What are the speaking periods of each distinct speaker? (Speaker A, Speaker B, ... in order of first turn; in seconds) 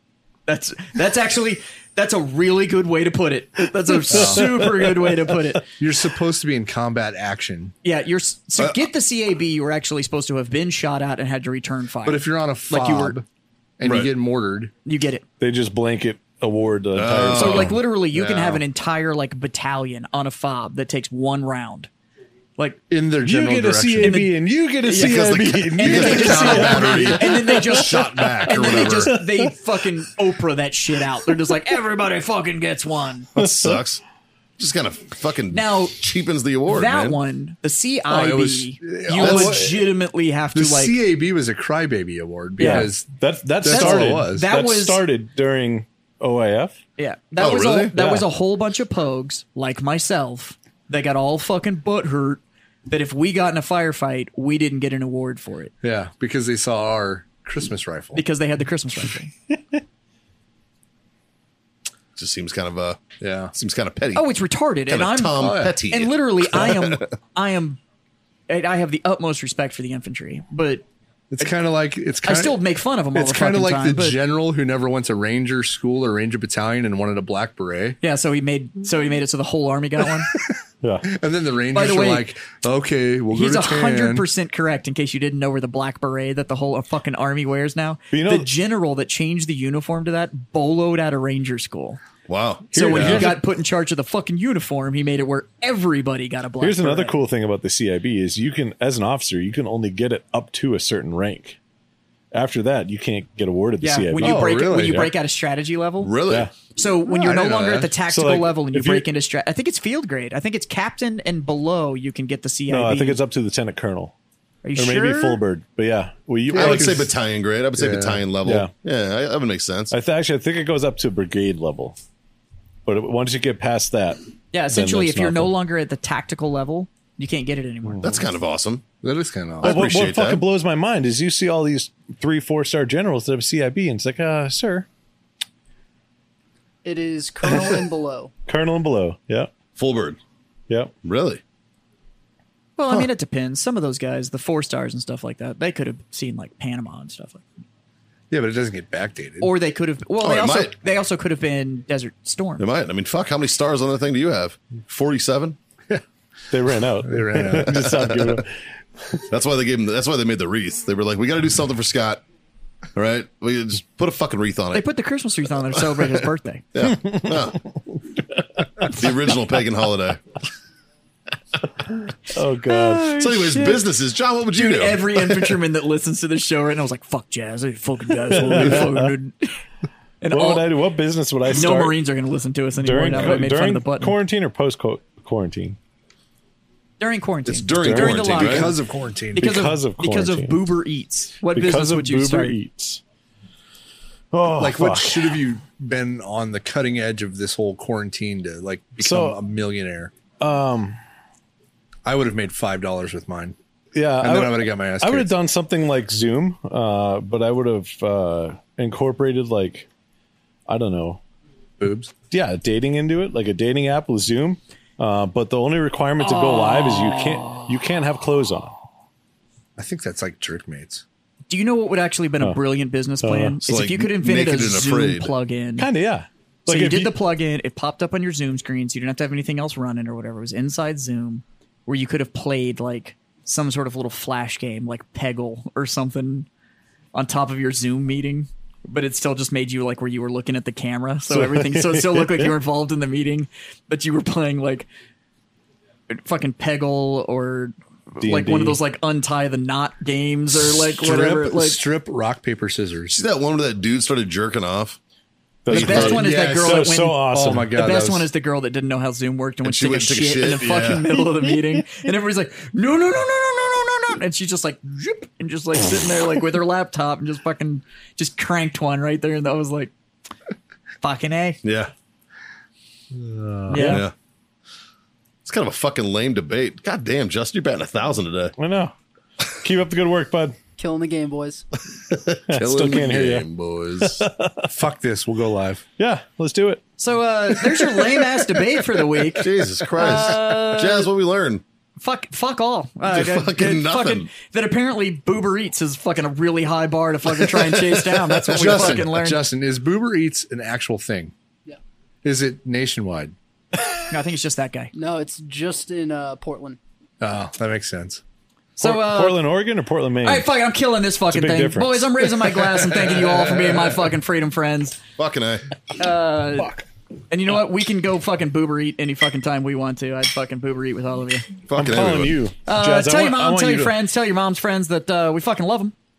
Speaker A: 0.5-5.7, 7.8-13.2, 14.8-15.2, 17.4-21.9, 24.0-33.3, 35.5-36.0, 36.7-41.0, 42.6-42.9, 43.6-45.0, 47.0-55.7, 58.1-59.3, 64.1-67.8, 68.5-70.8, 72.2-74.2, 78.0-80.3, 81.7-82.3, 83.3-92.0, 92.7-97.2, 103.8-106.2, 106.7-113.2, 114.6-115.4, 124.5-128.1, 142.8-147.4, 149.4-152.6, 164.7-166.6, 172.7-173.8, 174.5-179.6, 180.2-180.7, 181.5-184.1, 187.0-188.7, 189.3-192.6, 216.2-217.8, 221.5-225.9, 226.7-236.5, 237.1-244.9, 246.1-251.8, 255.7-257.1, 257.7-269.9, 271.0-271.6, 273.7-274.0, 287.0-291.1, 292.0-299.4, 304.1-304.9, 308.8-309.4, 310.2-315.0, 316.0-321.5, 322.6-325.9
Speaker B: 4.1-4.6, 5.8-7.7, 12.0-13.2, 13.8-14.7, 18.1-18.6, 22.9-24.2, 25.8-27.4, 38.1-39.9, 40.5-44.5, 55.8-58.2, 63.2-63.5, 65.3-65.8, 71.3-72.6, 73.1-78.0, 81.0-84.3, 92.9-93.3, 104.2-105.0, 107.1-108.0, 116.5-117.1, 117.7-118.3, 129.0-129.8, 148.3-149.5, 157.0-157.7, 188.2-189.5, 194.6-200.1, 202.0-203.6, 204.2-205.3, 211.8-212.1, 219.8-221.0, 250.6-253.2, 256.1-258.3, 273.1-274.0, 284.7-285.8, 298.5-301.3, 302.2-303.3, 307.2-308.2, 313.1-313.9
Speaker C: 13.8-14.1, 16.9-17.8, 25.0-29.1, 33.4-34.0, 34.6-37.2, 39.2-39.5, 47.4-47.9, 62.1-63.0, 63.5-64.3, 64.9-67.0, 92.3-92.8, 106.0-106.5, 116.5-119.9, 128.0-128.8, 129.6-130.4, 139.8-140.2, 141.0-141.4, 150.2-150.7, 152.6-155.6, 157.5-158.4, 159.3-162.2, 162.9-164.9, 166.0-167.6, 168.9-170.2, 173.1-175.4, 187.4-188.7, 223.6-225.3, 253.1-255.0, 255.7-256.2, 259.6-261.1, 271.6-271.9, 273.8-274.1, 275.4-278.5, 282.1-284.2, 289.4-291.6, 293.1-294.3, 298.5-299.0, 315.2-315.6, 321.7-322.4
Speaker D: 15.4-17.8, 23.2-26.8, 28.6-29.5, 33.4-33.8, 42.6-46.8, 48.0-48.3, 88.1-88.5, 92.7-93.4, 96.6-101.6, 102.3-105.1, 108.1-109.1, 112.7-114.1, 114.8-117.1, 118.4-118.7, 119.9-122.0, 122.8-125.5, 127.9-128.2, 129.6-134.9, 138.5-139.5, 156.5-159.2, 166.8-167.5, 172.3-173.1, 178.3-179.1, 180.3-182.0, 182.8-185.8, 187.8-188.2, 189.4-190.6, 191.5-193.0, 194.3-195.3, 199.0-199.3, 200.4-201.0, 203.9-209.9, 210.7-211.2, 212.3-218.8, 223.2-223.6, 225.8-227.1, 241.3-242.5, 248.2-248.8, 255.6-257.7, 278.6-278.9, 279.4-280.6, 282.5-284.7, 286.0-286.8, 287.6-289.5, 308.8-310.5, 311.3-312.1, 321.7-323.9
Speaker E: 136.8-138.3, 280.8-281.6, 304.9-306.8